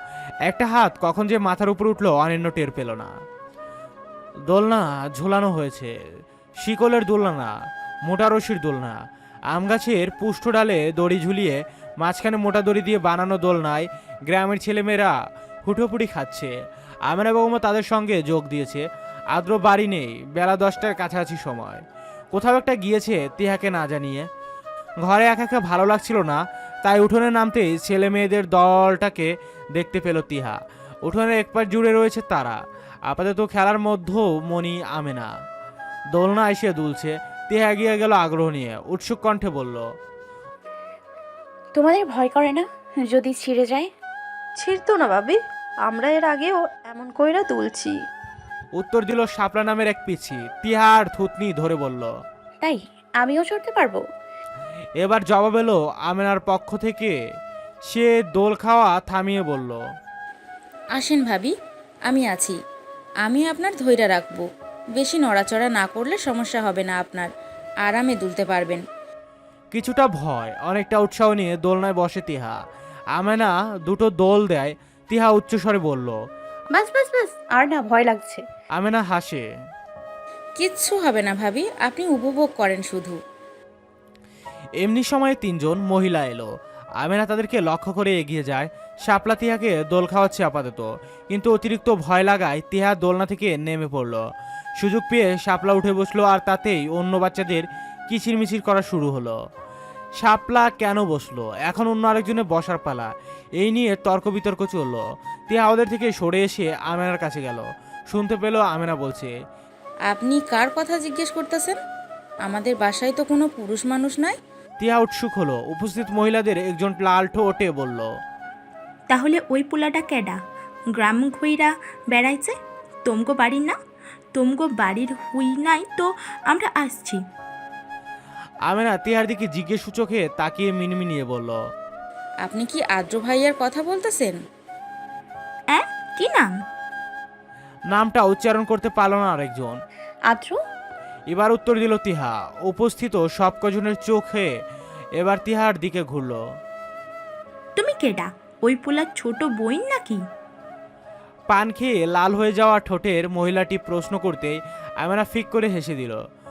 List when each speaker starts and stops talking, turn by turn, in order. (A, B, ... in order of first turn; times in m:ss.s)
0:00.5-0:03.1 A
0:04.5-0:05.9 A
0:06.6-0:07.5 A
0:08.0-0:09.0 A
0:09.5-0:15.1 A
0:15.6-0:16.5 A
0:17.1-0:21.8 A
0:22.3-0:24.3 A
0:25.0-0:35.3 A
0:36.1-0:39.8 A
0:41.7-0:43.9 B
0:44.6-0:48.0 C
0:48.8-0:52.1 A
0:52.6-0:54.0 B
0:55.0-0:57.2 A
0:57.9-0:59.8 A
1:00.9-1:01.5 D
1:02.1-1:02.6 D
1:03.2-1:04.4 D
1:05.0-1:07.3 D
1:07.8-1:08.8 D
1:09.7-1:12.6 A
1:13.1-1:16.2 A
1:16.7-1:18.4 B
1:18.7-1:19.4 A
1:20.6-1:23.2 D
1:24.8-1:26.5 A
1:27.0-1:34.2 A
1:34.8-1:39.4 A
1:40.2-1:49.3 A
1:50.1-1:51.8 D
1:52.4-1:54.4 D
1:54.8-1:58.1 A
1:59.1-2:03.8 E
2:04.3-2:07.2 E
2:08.7-2:11.6 A
2:12.4-2:14.4 D
2:15.7-2:16.6 E
2:17.9-2:19.8 A
2:20.3-2:20.6 B
2:21.3-2:24.5 A
2:25.2-2:26.4 A
2:27.8-2:30.2 E
2:31.5-2:36.2 A